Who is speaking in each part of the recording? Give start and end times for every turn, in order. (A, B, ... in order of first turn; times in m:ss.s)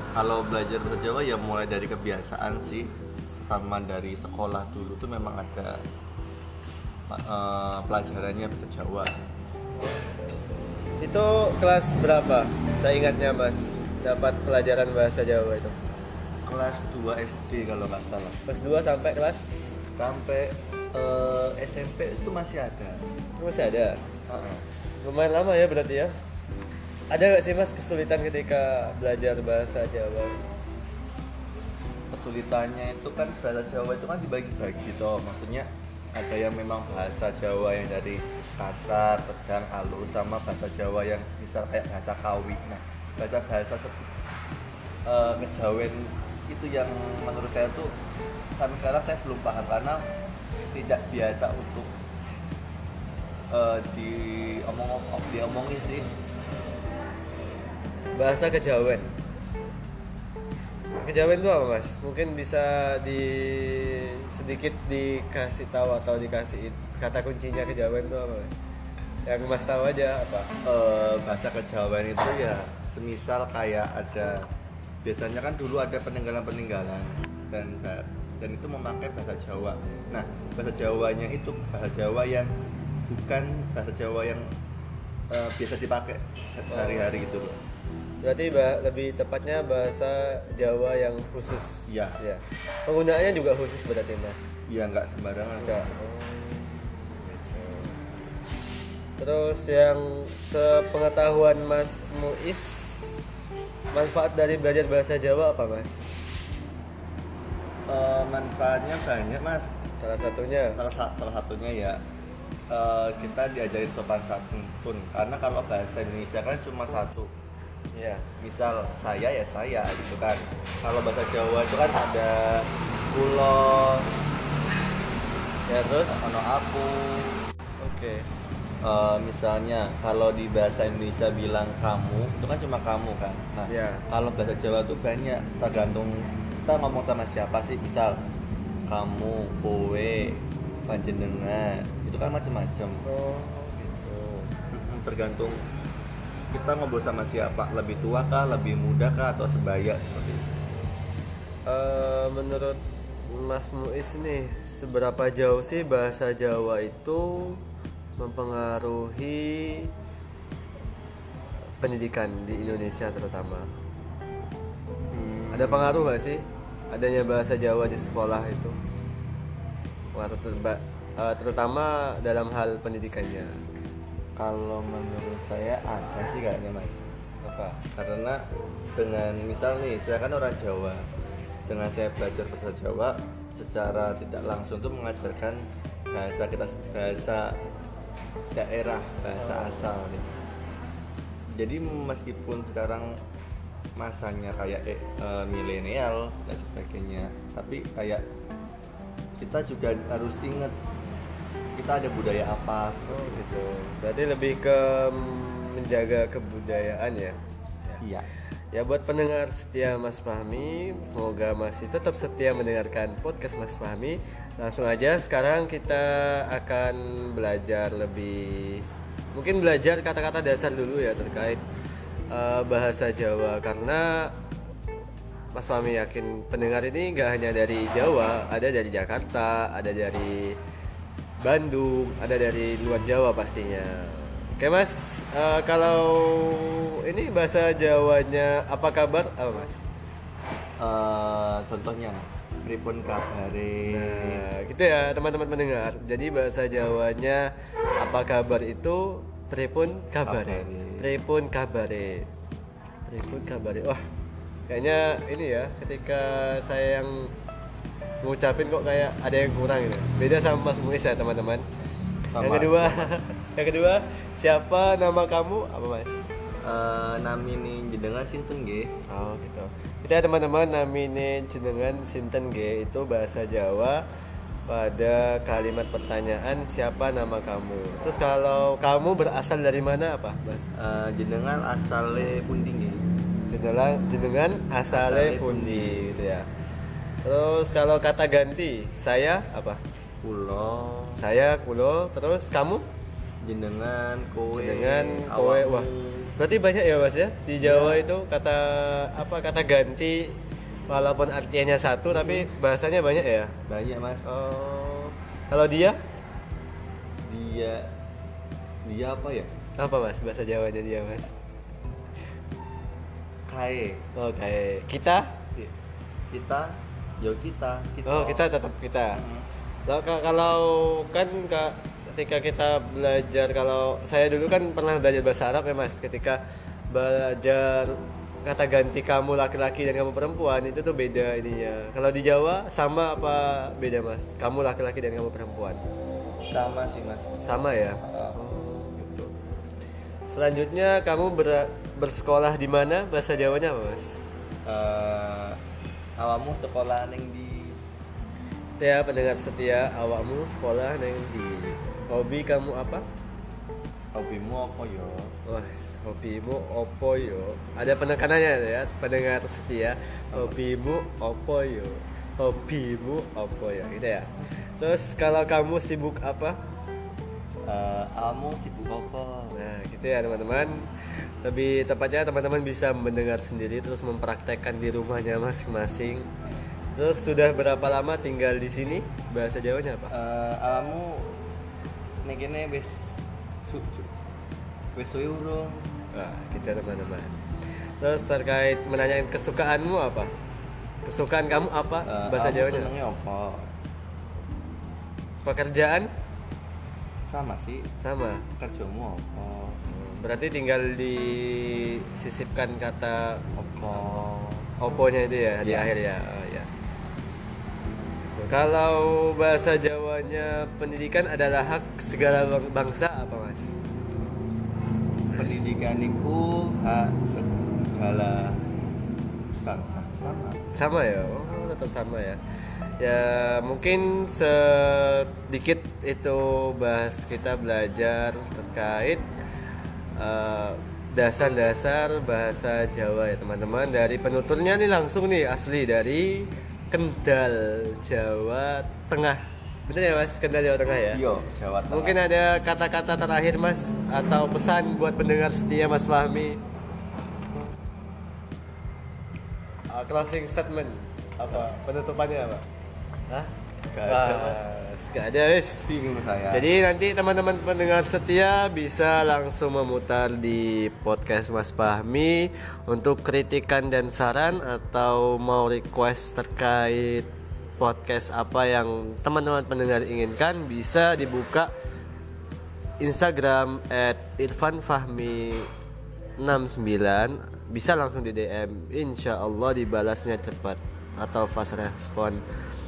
0:00.2-0:05.8 A
0:07.1-0:09.1 A
0:09.8-0:10.2 B
0:11.0-0:15.8 B
0:16.4-0:18.4 A
0:18.5-0:19.8 B
0:20.0-0:23.1 A
0:23.4-0:24.0 B
0:24.3-0:24.6 A
0:25.0-0:26.1 B
0:27.1-0:30.4 B
0:32.1-0:44.1 A
0:45.1-0:47.9 A
0:48.6-0:50.0 A
0:50.6-0:51.9 A
0:53.5-0:56.1 A
0:58.2-0:59.1 B
1:01.0-1:08.5 B
1:09.3-1:10.5 B
1:10.6-1:14.5 A
1:15.0-1:22.5 A
1:23.1-1:24.5 A
1:25.3-1:27.6 A
1:26.7-1:27.2 B
1:28.2-1:34.5 B
1:31.9-1:32.2 A
1:34.7-1:35.9 A
1:35.6-1:38.0 B
1:39.2-1:43.3 B
1:43.9-1:46.0 B
1:47.9-1:49.7 A
1:50.0-1:50.8 B
1:50.7-1:52.0 A
1:52.7-1:57.3 A
1:57.9-1:58.3 B
1:58.4-2:04.1 A
2:05.7-2:06.3 B
2:06.0-2:07.4 A
2:07.8-2:08.3 B
2:08.8-2:18.2 A
2:13.7-2:14.0 B
2:18.9-2:23.1 A
2:23.0-2:24.5 B
2:24.7-2:25.6 A
2:26.5-2:30.4 A
2:31.7-2:37.6 B
2:38.2-2:39.9 B
2:41.8-2:43.7 B
2:45.1-2:46.1 A
2:45.5-2:48.8 B
2:50.2-2:53.6 B
2:54.4-2:57.1 A
2:57.4-2:57.8 B
2:57.9-2:58.4 A
2:59.0-3:01.1 A
3:01.7-3:05.6 A
3:06.1-3:07.5 A
3:08.6-3:10.3 A
3:11.6-3:13.2 A
3:14.0-3:18.2 A
3:19.4-3:20.7 A
3:21.8-3:23.4 A
3:23.1-3:28.0 B
3:28.0-3:28.3 A
3:28.7-3:41.6 B
3:42.3-3:44.3 B
3:45.5-3:50.6 B
3:51.4-3:59.8 B
4:00.8-4:04.5 A
4:03.9-4:12.3 B
4:10.2-4:11.1 A
4:13.1-4:14.0 B
4:14.7-4:17.3 B
4:18.2-4:21.7 B
4:22.3-4:23.2 A
4:22.4-4:26.3 B
4:26.6-4:28.9 A
4:29.1-4:34.0 B
4:34.7-4:40.7 B
4:40.7-4:43.0 A
4:43.5-4:46.5 B
4:44.9-4:46.2 A
4:47.2-4:49.8 B
4:50.2-4:51.2 A
4:51.2-4:52.8 B
4:53.4-4:56.3 A
4:54.5-5:00.4 B
4:57.6-4:58.2 A
5:00.9-5:03.6 B
5:02.1-5:02.5 A
5:03.7-5:04.3 A
5:04.2-5:06.0 B
5:07.2-5:07.9 A
5:08.8-5:09.5 A
5:09.8-5:11.3 B
5:13.5-5:14.0 A
5:14.2-5:15.4 B
5:16.3-5:18.5 A
5:18.1-5:19.2 B
5:19.1-5:19.5 A
5:19.9-5:35.8 B
5:36.4-5:37.4 A
5:37.4-5:39.3 B
5:38.0-5:38.4 A
5:40.3-5:44.2 B
5:44.7-5:45.6 A
5:46.2-5:47.8 A
5:48.8-5:51.4 B
5:51.3-5:51.8 A
5:51.9-5:53.0 B
5:54.1-5:55.3 A
5:55.5-6:06.6 B
6:00.3-6:00.6 A
6:07.7-6:09.6 A
6:09.5-6:16.3 B
6:17.0-6:20.1 B
6:20.1-6:21.3 A
6:22.2-6:24.1 A
6:25.0-6:25.9 A
6:26.1-6:27.4 B
6:28.0-6:30.3 B
6:31.0-6:32.9 B
6:32.0-6:33.7 A
6:35.4-6:36.1 B
6:37.3-6:37.9 A
6:38.0-6:38.5 B
6:38.6-6:39.8 A
6:39.9-6:43.4 B
6:43.6-6:44.7 A
6:44.8-6:46.7 B
6:45.6-6:45.9 A
6:48.3-6:53.8 B
6:55.3-6:55.6 B
6:55.3-6:58.6 A
6:59.6-7:00.6 A
7:00.7-7:02.4 B
7:03.0-7:09.2 B
7:10.2-7:21.2 B
7:21.1-7:22.2 A
7:21.9-7:26.6 B
7:29.9-7:32.6 B
7:31.4-7:31.7 A
7:33.9-7:34.6 A
7:34.0-7:35.9 B
7:35.8-7:36.7 A
7:36.5-7:51.7 B
7:53.0-7:55.7 B
7:56.4-8:02.4 B